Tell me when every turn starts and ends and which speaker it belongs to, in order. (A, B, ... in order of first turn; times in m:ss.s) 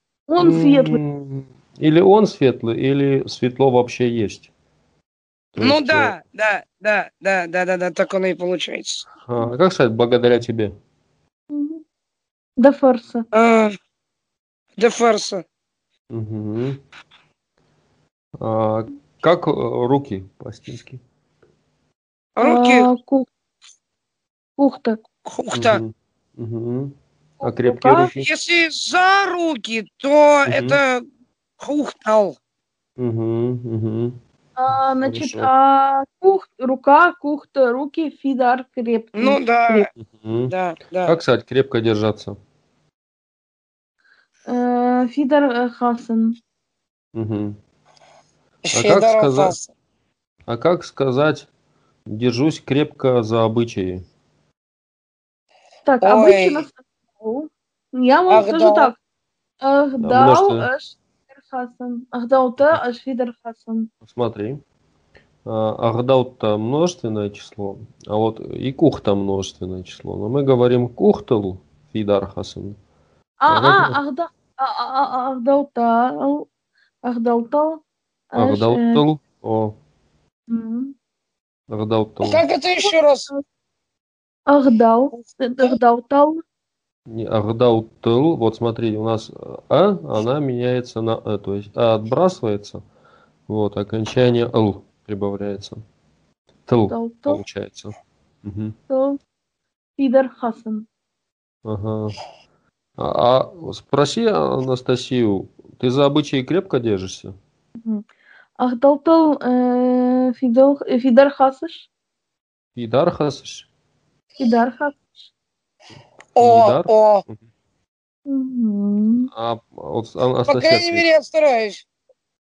0:00.3-0:01.0 A
0:00.4-0:04.5 B
0:05.6-0:06.2 B
0:05.6-0:09.0 C
0:09.2-0:10.7 B
0:11.5-0:11.8 A
0:12.6-0:13.2 A
0:13.3-0:13.8 C
0:14.8-0:15.4 C
0:16.1-0:16.8 B
0:18.4-0:21.0 B
0:22.4-0:22.9 C
0:22.4-0:23.3 A
0:24.6-0:25.0 A
0:25.3-0:25.8 C
0:25.5-0:28.3 B
0:27.4-0:28.2 A
0:28.2-0:31.1 C
0:30.5-0:30.8 B
0:31.6-0:32.4 C
0:33.0-0:34.2 B
0:34.6-0:39.9 A
0:35.0-0:35.5 B
0:39.2-0:39.9 C
0:40.0-0:40.5 B
0:40.5-0:41.2 C
0:41.1-0:42.4 B
0:44.5-0:46.4 A
0:47.2-0:47.6 B
0:48.7-0:49.7 C
0:48.7-0:49.6 B
0:50.5-0:51.5 B
0:52.1-0:54.0 B
0:55.8-0:59.0 A
0:56.0-0:56.7 C
0:58.3-0:58.9 C
0:59.6-1:03.9 A
1:00.0-1:00.7 B
1:04.0-1:04.6 B
1:05.5-1:12.8 B
1:13.4-1:16.5 A
1:13.5-1:14.0 B
1:17.0-1:19.0 A
1:18.4-1:19.8 B
1:20.5-1:21.0 A
1:21.7-1:22.4 B
1:22.2-1:23.3 C
1:24.5-1:26.4 A
1:27.1-1:32.8 B
1:33.5-1:35.8 B
1:36.7-1:38.8 B
1:36.9-1:37.4 A
1:38.9-1:39.2 A
1:40.0-1:40.9 A
1:41.7-1:42.2 B
1:43.0-1:47.3 B
1:48.6-1:51.9 A
1:52.8-1:53.7 B
1:54.4-1:55.2 A
1:56.4-1:57.2 C
1:56.4-1:57.4 B
1:58.3-1:59.3 A
1:59.3-2:01.1 B
2:00.5-2:01.8 C